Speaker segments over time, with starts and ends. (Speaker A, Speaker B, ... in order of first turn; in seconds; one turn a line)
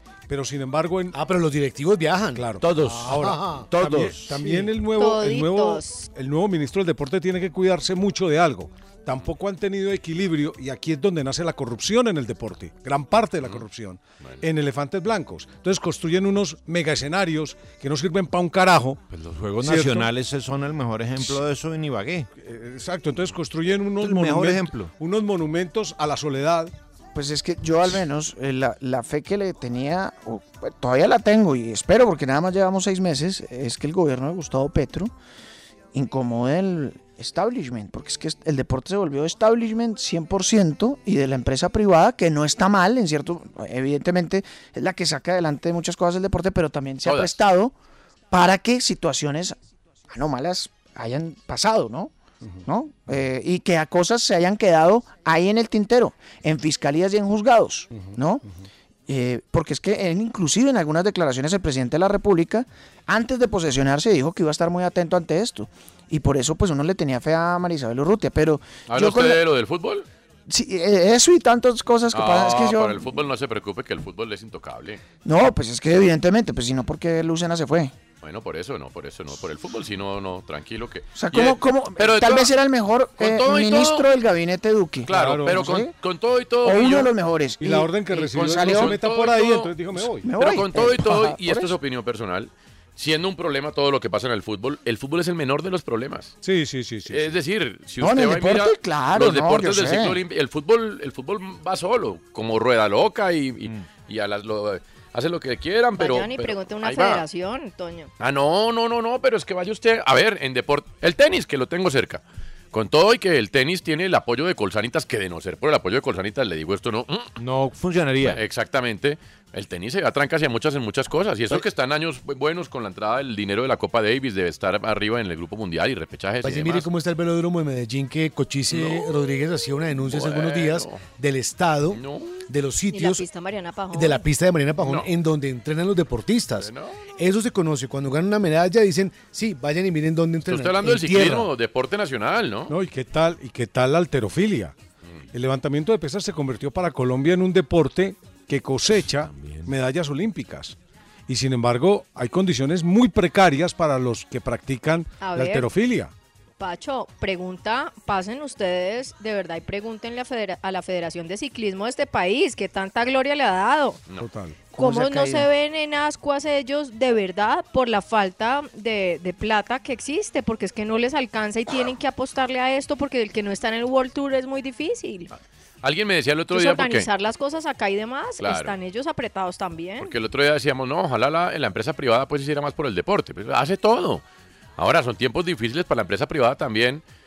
Speaker A: 0.3-1.1
Speaker B: 1.1-4.7
Speaker A: 2.3-19.0
Speaker C: 2.6-4.3
Speaker D: 5.0-6.1
Speaker C: 19.1-22.3
Speaker A: 19.6-20.1
Speaker A: 22.4-26.7
Speaker C: 24.0-24.9
Speaker E: 27.1-35.1
Speaker E: 35.9-47.7
Speaker F: 47.0-47.4
Speaker E: 48.3-49.5
Speaker E: 50.1-52.1
Speaker E: 52.6-58.4
Speaker A: 57.9-58.6
Speaker E: 59.1-69.4
Speaker F: 68.9-70.0
Speaker E: 70.5-73.1
Speaker F: 72.1-75.0
Speaker E: 75.2-77.9
Speaker F: 78.2-82.5
Speaker E: 81.1-85.9
Speaker F: 83.2-84.1
Speaker F: 85.0-87.1
Speaker A: 85.1-85.6
Speaker E: 86.6-89.0
Speaker A: 87.6-90.3
Speaker F: 88.3-89.7
Speaker E: 90.0-91.7
Speaker F: 90.3-96.3
Speaker A: 96.4-97.3
Speaker F: 97.1-107.2
Speaker E: 98.0-100.2
Speaker D: 106.0-108.1
Speaker F: 108.2-117.3
Speaker C: 117.4-118.4
Speaker F: 118.2-126.9
Speaker B: 126.4-133.2
Speaker F: 128.7-129.1
Speaker F: 130.0-131.0
Speaker F: 131.9-132.4
Speaker D: 132.9-134.2
Speaker B: 133.9-141.5
Speaker F: 134.8-135.1
Speaker F: 136.6-137.0
Speaker F: 140.4-142.7
Speaker A: 142.7-144.7
Speaker A: 145.3-150.7
Speaker C: 148.9-149.7
Speaker A: 151.3-156.1
Speaker D: 155.2-155.7
Speaker D: 156.6-164.0
Speaker A: 164.2-164.7
Speaker E: 164.7-165.5
Speaker D: 164.8-175.3
Speaker F: 175.8-177.1
Speaker D: 176.5-180.1
Speaker F: 178.4-178.7
Speaker F: 180.0-184.2
Speaker F: 184.8-187.0